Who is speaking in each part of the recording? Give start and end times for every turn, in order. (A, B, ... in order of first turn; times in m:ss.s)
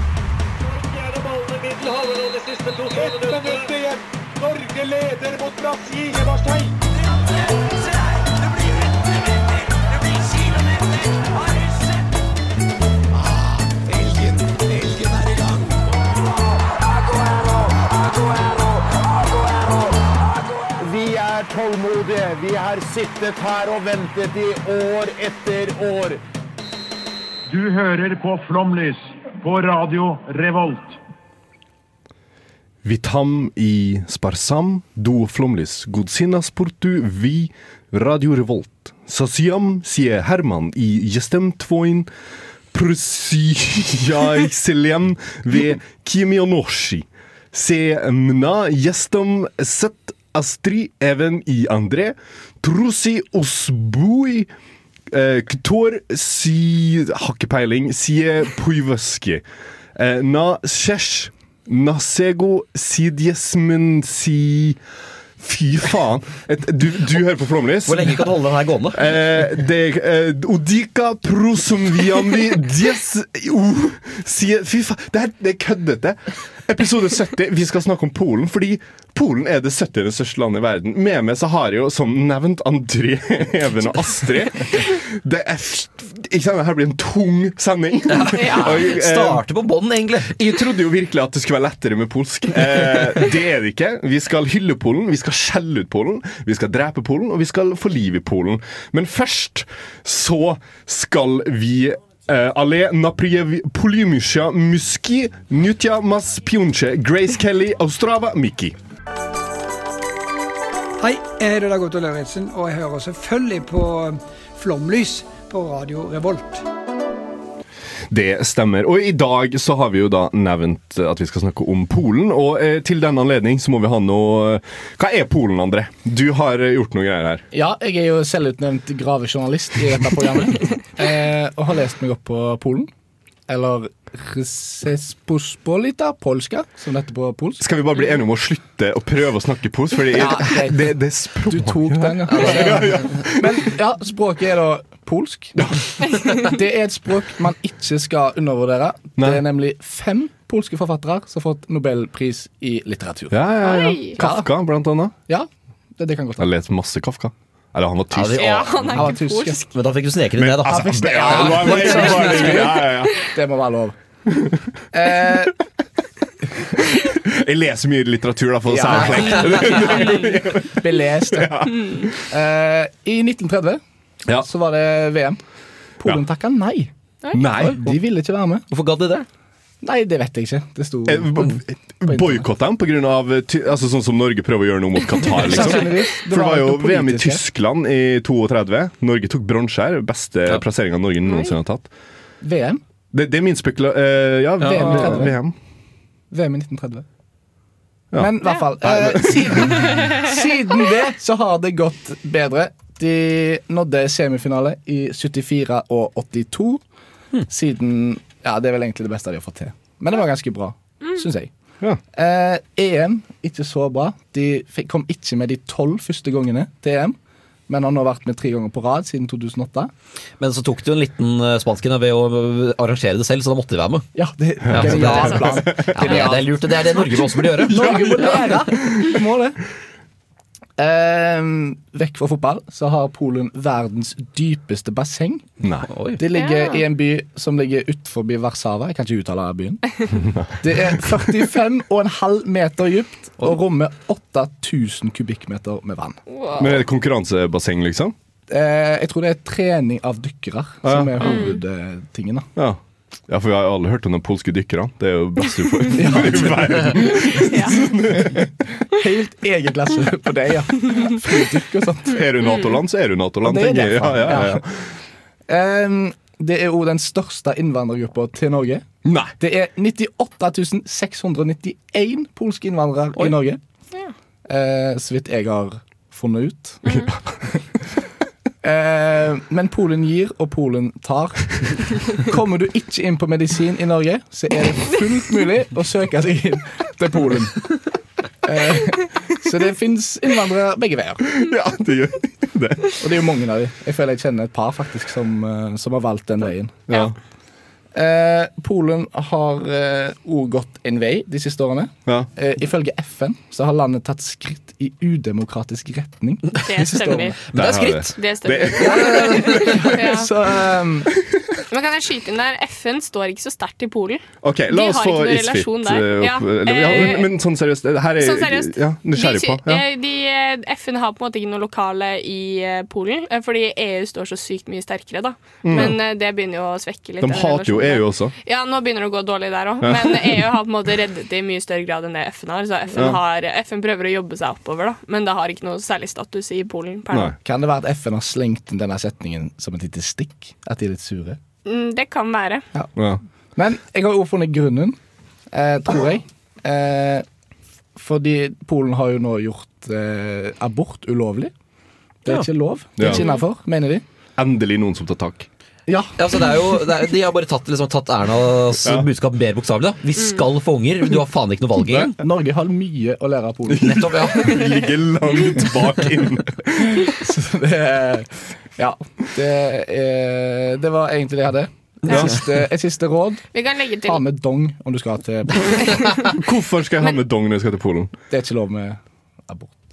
0:00.7-0:06.7 A
0:18.4-0:18.7 B
0:19.4-0:19.9 B
0:20.8-0:26.2 B
0:27.5-0:31.0 C
0:32.8-0:42.1 D
0:42.7-0:54.5 D
0:55.1-0:59.4 D
1:00.0-1:04.8 D
1:05.4-1:08.3 D
1:07.9-1:09.2 E
1:08.9-1:29.4 D
1:28.1-1:30.4 E
1:28.3-1:28.8 F
1:30.2-1:48.8 D
1:51.0-1:56.6 G
1:58.1-2:07.4 D
2:07.5-2:12.9 H
2:13.5-2:17.6 H
2:17.6-2:23.7 D
2:20.1-2:25.7 H
2:22.3-2:23.2 E
2:26.3-2:33.5 H
2:29.2-2:29.4 D
2:33.3-2:35.1 D
2:33.6-2:34.2 F
2:34.2-2:34.5 H
2:35.3-2:36.5 H
2:36.4-2:38.8 D
2:38.1-2:38.9 E
2:38.4-2:39.7 F
2:38.9-2:39.7 H
2:39.7-2:42.6 E
2:40.4-2:43.2 D
2:40.9-2:44.0 H
2:44.9-2:45.6 H
2:47.0-2:50.7 D
2:48.7-2:51.7 H
2:49.4-2:50.0 E
2:51.3-2:52.1 D
2:52.3-2:53.8 H
2:54.4-2:55.4 H
2:56.0-2:56.9 H
2:57.3-2:57.9 D
2:57.6-2:58.6 H
2:58.7-2:59.3 E
2:59.8-3:02.5 H
3:01.1-3:11.9 D
3:05.3-3:07.4 H
3:12.4-3:12.8 H
3:13.1-3:15.6 D
3:14.6-3:15.3 H
3:16.3-3:17.0 H
3:18.1-3:19.9 D
3:18.2-3:26.8 H
3:27.5-3:31.5 H
3:32.1-3:37.2 H
3:37.7-3:39.9 H
3:40.4-3:44.1 E
3:44.2-3:46.5 H
3:44.7-3:46.3 D
3:44.7-3:48.3 E
3:47.6-3:49.6 H
3:50.8-3:55.5 H
3:55.6-3:55.9 D
3:55.9-3:56.2 E
3:56.2-4:00.0 H
3:56.3-3:56.8 F
4:00.2-4:01.2 D
4:00.6-4:06.2 H
4:06.3-4:06.7 F
4:06.6-4:08.1 D
4:08.5-4:12.5 H
4:10.8-4:11.2 D
4:11.2-4:11.6 F
4:12.6-4:18.5 D
4:15.9-4:17.0 H
4:18.2-4:22.2 H
4:22.1-4:24.7 D
4:23.4-4:24.6 H
4:25.5-4:28.9 H
4:29.0-4:29.3 D
4:29.4-4:33.6 H
4:34.5-4:37.0 H
4:38.6-4:47.8 H
4:48.4-4:51.3 H
4:51.3-4:53.0 D
4:53.0-4:56.8 H
4:56.9-4:57.2 D
4:57.9-5:07.4 H
5:06.6-5:07.4 F
5:07.5-5:08.2 E
5:07.6-5:09.7 D
5:08.2-5:10.3 F
5:08.9-5:09.8 E
5:09.0-5:11.1 H
5:11.7-5:17.3 F
5:14.4-5:19.8 D
5:18.2-5:37.4 F
5:25.6-5:26.0 D
5:27.2-5:28.3 D
5:29.8-5:30.4 D
5:33.0-5:33.2 D
5:37.1-5:37.4 D
5:37.4-5:41.4 H
5:41.7-5:42.6 F
5:43.6-5:45.0 H
5:45.5-5:47.2 H
5:48.0-5:51.5 H
5:52.2-5:54.0 H
5:53.0-5:53.4 F
5:54.4-5:55.5 D
5:55.9-5:56.1 H
5:56.2-6:02.2 E
6:02.1-6:04.0 H
6:03.7-6:07.1 D
6:03.8-6:04.7 E
6:06.9-6:13.4 H
6:13.5-6:14.2 F
6:14.0-6:16.0 H
6:16.0-6:16.3 F
6:16.4-6:18.1 D
6:18.3-6:19.8 H